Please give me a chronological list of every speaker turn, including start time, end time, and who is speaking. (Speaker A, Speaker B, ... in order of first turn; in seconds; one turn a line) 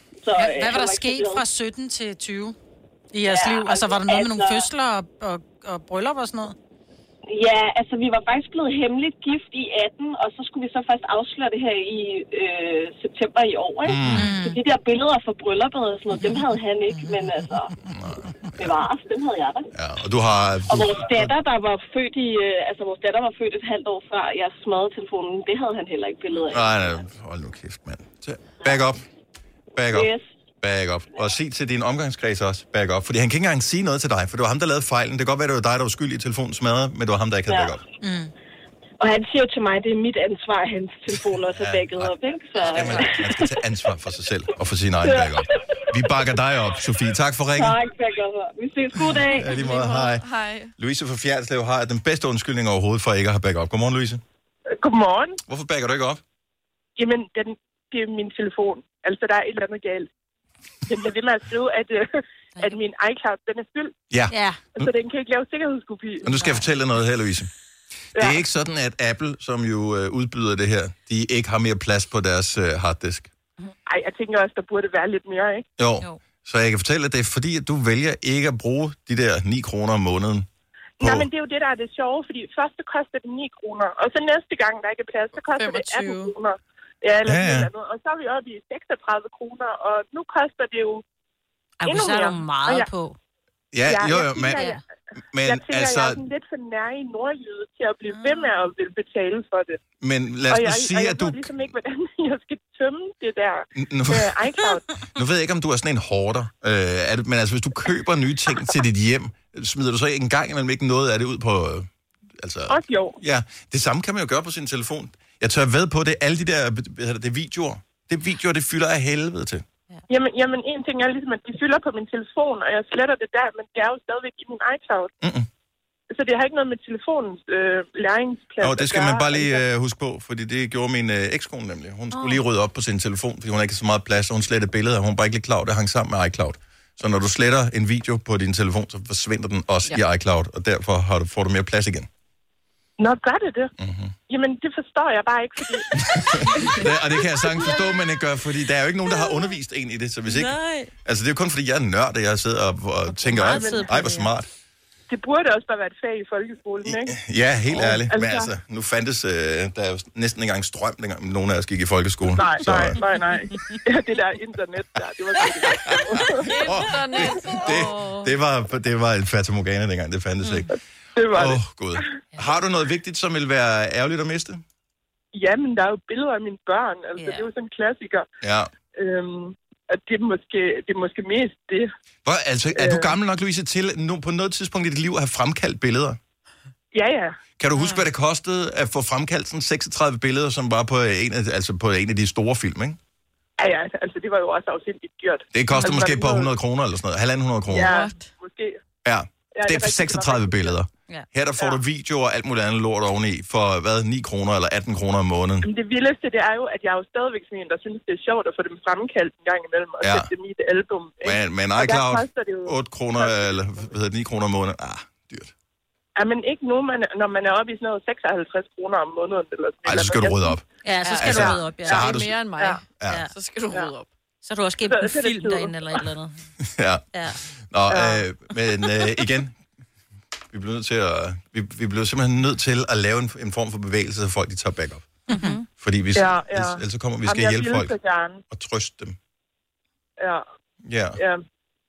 Speaker A: 0.2-1.4
Speaker B: 0.3-2.6
Speaker B: 3.1-6.5
Speaker A: 3.2-4.7
Speaker A: 7.3-17.7
Speaker C: 13.8-14.3
Speaker B: 14.1-14.6
Speaker B: 16.9-17.2
Speaker C: 17.9-18.7
Speaker A: 18.6-19.7
Speaker C: 19.7-21.3
Speaker A: 20.7-26.9
Speaker C: 26.5-29.0
Speaker C: 29.8-30.1
Speaker A: 29.9-30.3
Speaker C: 30.6-37.8
Speaker B: 38.0-38.3
Speaker A: 39.0-43.5
Speaker C: 41.5-47.8
Speaker A: 45.0-45.5
Speaker A: 47.5-49.6
Speaker C: 49.3-50.2
Speaker D: 49.3-50.7
Speaker C: 50.8-54.2
Speaker E: 54.8-55.4
Speaker C: 55.5-56.2
Speaker E: 57.0-60.1
Speaker E: 60.9-62.1
Speaker E: 62.6-63.9
Speaker C: 64.1-64.9
Speaker F: 64.3-64.7
Speaker E: 64.8-66.3
Speaker C: 66.2-67.5
Speaker F: 66.4-66.6
Speaker E: 68.2-68.4
Speaker C: 68.2-73.3
Speaker E: 73.9-75.7
Speaker C: 75.8-80.5
Speaker E: 81.0-91.0
Speaker C: 81.0-81.3
Speaker D: 85.5-86.3
Speaker C: 87.3-87.7
Speaker F: 91.8-93.2
Speaker E: 91.8-92.9
Speaker C: 93.7-94.8
Speaker E: 93.9-94.7
Speaker F: 94.5-94.8
Speaker C: 95.3-96.2
Speaker E: 95.4-99.8
Speaker F: 98.1-98.5
Speaker C: 100.0-101.7
Speaker E: 100.5-104.8
Speaker C: 103.8-104.4
Speaker C: 105.1-111.9
Speaker C: 112.4-119.7
Speaker E: 112.7-113.2
Speaker E: 120.1-125.1
Speaker C: 125.2-125.5
Speaker E: 126.1-129.6
Speaker C: 128.6-142.1
Speaker F: 132.1-132.4
Speaker E: 143.0-143.7
Speaker C: 143.8-144.2
Speaker E: 144.3-145.9
Speaker C: 145.9-154.5
Speaker F: 149.1-149.4
Speaker F: 150.3-150.9
Speaker F: 153.2-154.3
Speaker E: 153.4-153.9
Speaker E: 155.1-157.1
Speaker C: 156.8-163.0
Speaker E: 157.7-158.5
Speaker E: 162.4-166.5
Speaker D: 166.5-168.3
Speaker C: 166.5-170.7
Speaker F: 170.4-170.7
Speaker E: 171.2-171.6
Speaker C: 171.3-174.6
Speaker E: 175.3-178.3
Speaker F: 177.2-177.5
Speaker C: 178.4-178.7
Speaker E: 178.9-181.9
Speaker C: 182.2-186.2
Speaker E: 182.8-183.2
Speaker E: 186.9-187.4
Speaker C: 187.6-193.0
Speaker F: 187.8-188.1
Speaker E: 193.6-196.5
Speaker C: 195.5-197.9
Speaker E: 197.7-198.8
Speaker D: 197.8-198.3
Speaker C: 199.0-205.7
Speaker E: 199.5-200.8
Speaker E: 205.6-213.6
Speaker C: 210.0-210.3
Speaker C: 211.2-215.5
Speaker E: 216.2-220.6
Speaker C: 219.8-220.6
Speaker F: 220.8-222.1
Speaker D: 221.0-224.1
Speaker C: 221.2-222.5
Speaker E: 221.4-221.9
Speaker E: 222.5-222.8
Speaker C: 223.0-223.3
Speaker F: 224.4-226.3
Speaker E: 224.8-226.0
Speaker C: 226.6-227.0
Speaker F: 227.1-227.4
Speaker C: 227.6-229.5
Speaker E: 227.9-228.2
Speaker C: 230.5-235.1
Speaker F: 235.3-235.7
Speaker B: 235.3-235.6
Speaker C: 235.8-238.0
Speaker E: 236.2-238.4
Speaker C: 238.5-239.2
Speaker C: 240.8-241.2
Speaker E: 241.2-241.4